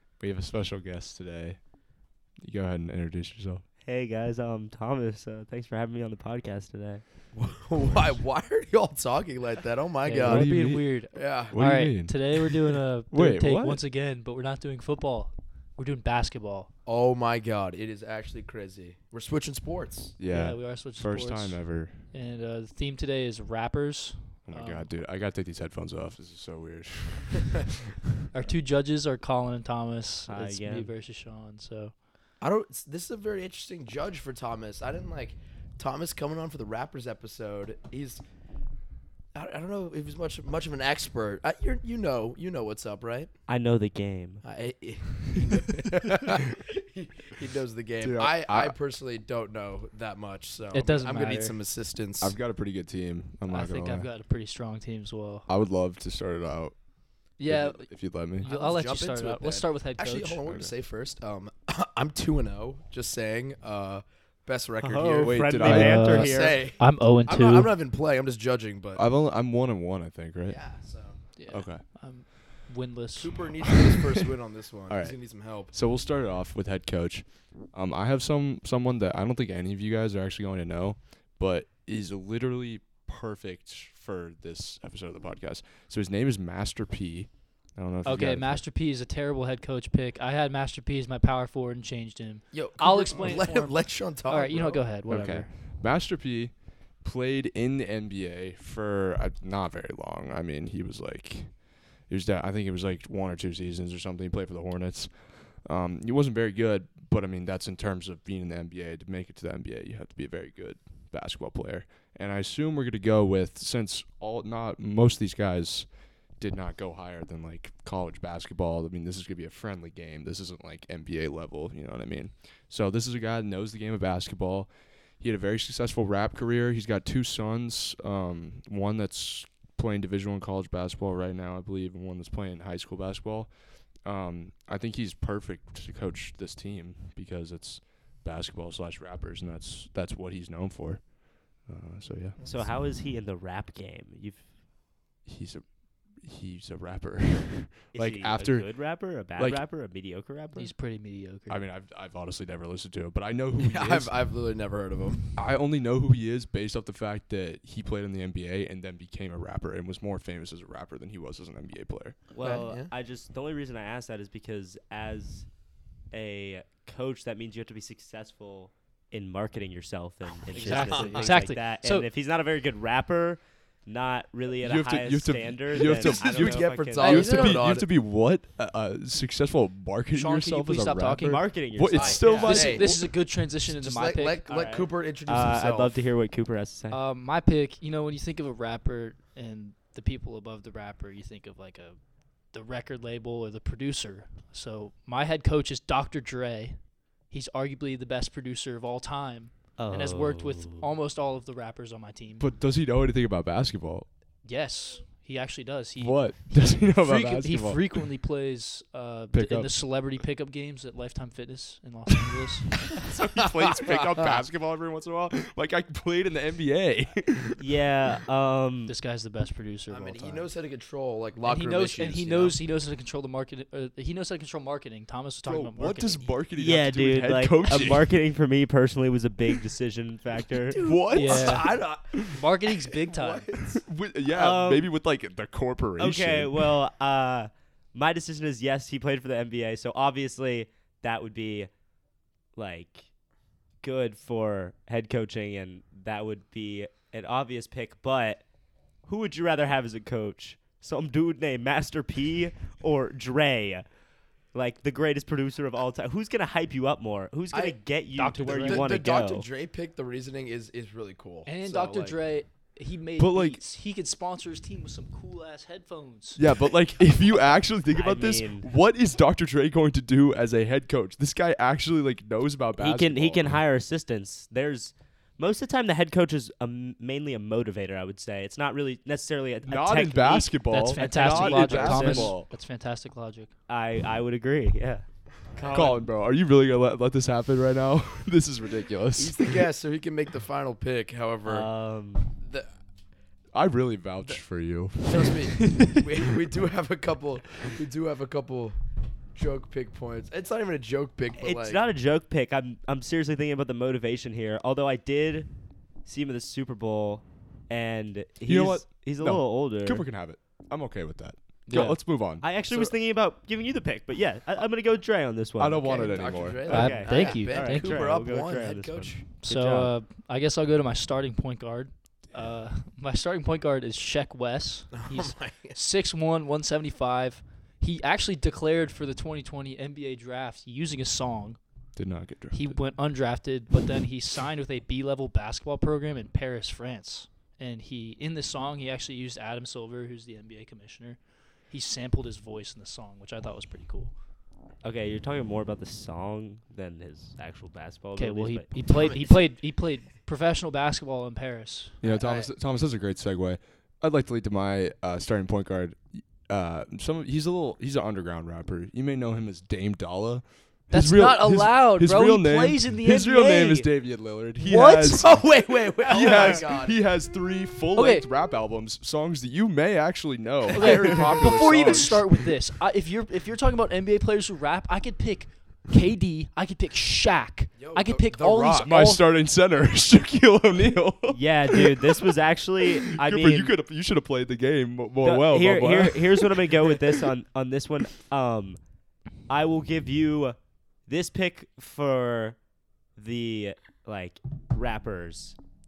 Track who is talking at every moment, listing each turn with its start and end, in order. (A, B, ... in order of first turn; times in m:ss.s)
0:00.2-0:01.6 A
0:02.4-0:03.6 A
0:03.8-0:07.0 B
0:07.3-0:10.5 C
0:10.0-0:16.7 D
0:10.2-0:10.9 A
0:11.1-0:11.6 C
0:11.5-0:12.6 A
0:13.1-0:13.8 A
0:16.8-0:20.1 C
0:20.2-0:22.0 A
0:20.3-0:24.9 D
0:24.5-0:27.7 A
0:28.3-0:31.9 D
0:30.3-0:30.9 B
0:32.4-0:38.2 C
0:39.3-0:43.3 C
0:43.5-0:44.4 B
0:44.4-0:52.3 C
0:48.0-0:48.7 A
0:50.7-0:51.6 D
0:52.2-0:54.1 A
0:53.5-0:55.5 D
0:55.5-0:56.7 A
0:57.4-1:00.4 D
0:57.4-0:58.5 A
0:58.4-1:09.0 C
1:04.8-1:06.6 B
1:05.2-1:06.2 A
1:05.6-1:07.7 D
1:09.0-1:10.6 A
1:10.4-1:11.2 C
1:11.4-1:13.5 D
1:11.5-1:11.8 A
1:13.2-1:15.7 C
1:14.9-1:15.2 A
1:15.7-1:28.6 A
1:28.0-1:35.5 D
1:32.5-1:34.8 C
1:35.1-1:55.9 A
1:56.4-2:13.5 A
2:14.0-2:22.4 A
2:22.4-2:22.7 C
2:22.4-2:24.5 B
2:25.2-2:29.6 A
2:27.9-2:30.7 B
2:30.5-2:31.6 D
2:31.5-2:34.1 A
2:33.6-2:35.3 C
2:35.4-2:42.2 A
2:42.3-2:45.4 B
2:42.4-2:42.9 C
2:46.1-2:57.6 B
2:50.5-2:51.4 C
2:50.5-2:52.1 D
2:54.6-3:03.0 A
2:55.7-2:57.9 C
3:00.1-3:01.4 D
3:01.2-3:02.7 B
3:01.9-3:03.1 C
3:02.2-3:04.4 D
3:03.7-3:06.0 C
3:04.5-3:07.0 B
3:06.9-3:22.5 D
3:19.8-3:20.9 B
3:22.4-3:24.1 A
3:24.4-3:33.0 D
3:26.0-3:28.1 A
3:29.3-3:29.7 A
3:33.0-3:37.6 A
3:33.4-3:34.4 C
3:37.6-3:38.9 B
3:38.9-3:40.5 D
3:39.9-3:42.6 C
3:41.4-3:46.3 D
3:45.4-3:48.1 A
3:46.6-3:50.8 B
3:50.8-3:51.6 A
3:50.8-3:53.8 C
3:51.1-3:51.8 D
3:52.3-3:53.5 D
3:53.8-3:56.7 A
3:54.3-3:54.9 B
3:56.0-4:01.7 B
4:02.6-4:03.1 B
4:03.8-4:08.4 B
4:09.1-4:13.8 B
4:14.5-4:19.4 B
4:17.5-4:17.8 C
4:18.2-4:19.0 D
4:18.5-4:22.2 C
4:21.4-4:26.4 D
4:23.2-4:23.6 A
4:26.4-4:33.6 A
4:27.9-4:28.7 B
4:32.8-4:42.4 B
4:39.6-4:42.5 A
4:40.7-4:43.5 D
4:43.7-4:46.0 B
4:45.6-4:45.9 C
4:45.7-4:49.6 A
4:49.2-4:51.7 C
4:51.4-4:52.3 B
4:52.4-4:52.7 C
4:53.5-4:56.3 A
4:55.0-4:58.8 C
4:59.3-5:01.8 C
5:01.4-5:05.5 B
5:06.0-5:10.0 B
5:08.4-5:12.9 A
5:11.7-5:16.1 B
5:15.6-5:16.9 A
5:15.8-5:19.2 C
5:16.7-5:17.9 D
5:16.7-5:19.9 B
5:19.4-5:31.6 D
5:24.9-5:25.8 C
5:32.0-5:32.8 A
5:32.5-5:44.1 D
5:44.8-5:48.7 B
5:48.2-5:52.0 D
5:48.8-5:49.5 C
5:52.0-6:05.5 A
5:52.0-5:52.5 C
6:00.9-6:03.9 D
6:04.6-6:05.4 D
6:05.2-6:07.0 C
6:06.0-6:12.2 A
6:06.1-6:06.6 D
6:08.0-6:08.2 D
6:10.7-6:12.2 C
6:10.7-6:19.3 D
6:17.8-6:18.9 C
6:18.8-6:22.4 A
6:21.3-6:23.7 B
6:23.0-6:27.0 A
6:25.2-6:28.8 B
6:29.5-6:30.6 B
6:31.1-6:32.6 B
6:33.2-6:35.6 B